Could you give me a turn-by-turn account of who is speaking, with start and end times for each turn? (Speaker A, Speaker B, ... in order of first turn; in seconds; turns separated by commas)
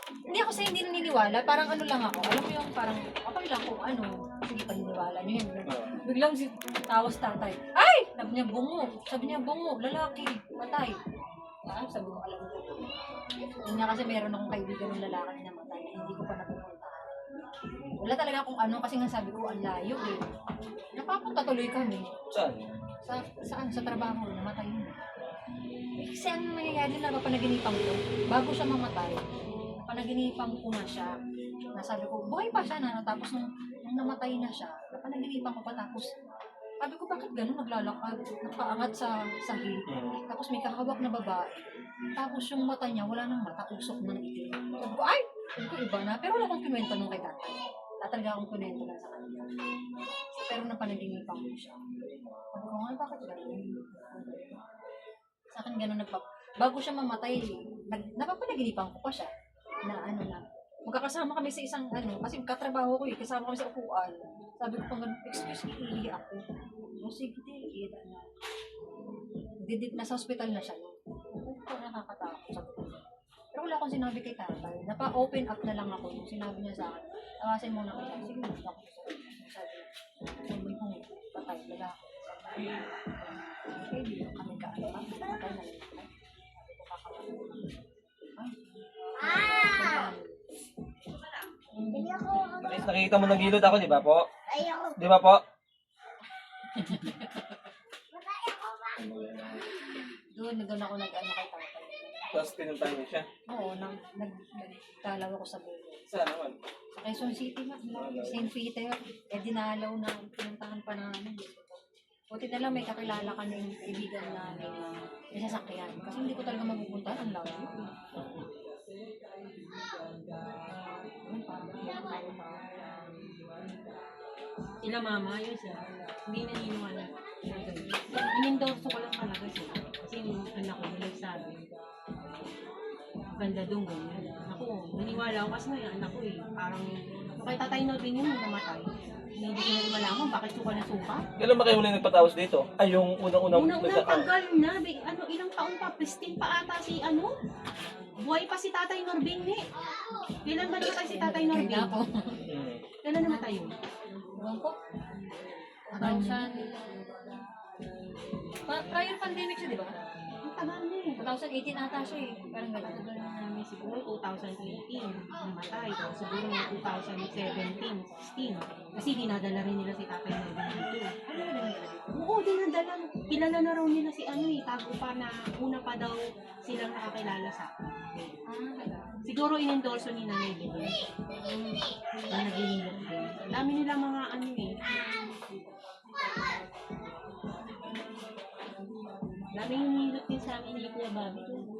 Speaker A: 0.3-11.0, Speaker B: 5.6-5.9, Speaker A: 11.7-12.9, Speaker A: 13.6-17.1, Speaker A: 18.0-20.2, Speaker A: 20.9-22.1, Speaker B: 22.3-22.7, Speaker A: 23.0-25.0, Speaker A: 26.0-29.2, Speaker A: 29.9-31.1, Speaker A: 31.8-36.0, Speaker A: 36.8-41.6, Speaker B: 39.9-40.2, Speaker A: 42.2-49.5, Speaker A: 50.3-51.8, Speaker A: 52.5-54.6, Speaker A: 55.5-59.3, Speaker A: 59.9-66.4, Speaker A: 67.0-68.3, Speaker A: 69.7-73.0, Speaker A: 73.5-79.9, Speaker A: 80.5-82.9, Speaker A: 83.7-87.6, Speaker A: 89.1-90.2, Speaker C: 89.8-90.1, Speaker A: 91.7-92.3, Speaker B: 92.6-94.3, Speaker B: 94.9-95.4, Speaker A: 96.7-97.5, Speaker B: 98.9-99.7, Speaker A: 100.2-102.5, Speaker B: 102.3-103.2, Speaker A: 103.5-106.0, Speaker B: 106.1-106.6, Speaker A: 107.0-111.8, Speaker B: 107.9-108.5, Speaker A: 112.3-117.7, Speaker B: 118.1-118.4, Speaker A: 121.2-122.7, Speaker C: 124.8-131.6, Speaker C: 133.4-141.2, Speaker B: 141.4-144.3, Speaker C: 143.5-147.3, Speaker C: 148.2-149.6, Speaker C: 150.4-151.9, Speaker A: 150.8-152.4, Speaker B: 152.5-152.8, Speaker C: 153.0-153.7, Speaker A: 154.4-154.7, Speaker A: 155.9-156.4, Speaker C: 155.9-156.6, Speaker A: 158.7-160.0, Speaker C: 160.4-161.2, Speaker A: 161.2-163.1, Speaker C: 162.8-178.4, Speaker A: 171.3-172.0, Speaker A: 178.5-179.2, Speaker C: 179.2-181.0, Speaker A: 181.4-181.8, Speaker C: 182.3-184.8, Speaker C: 189.5-191.6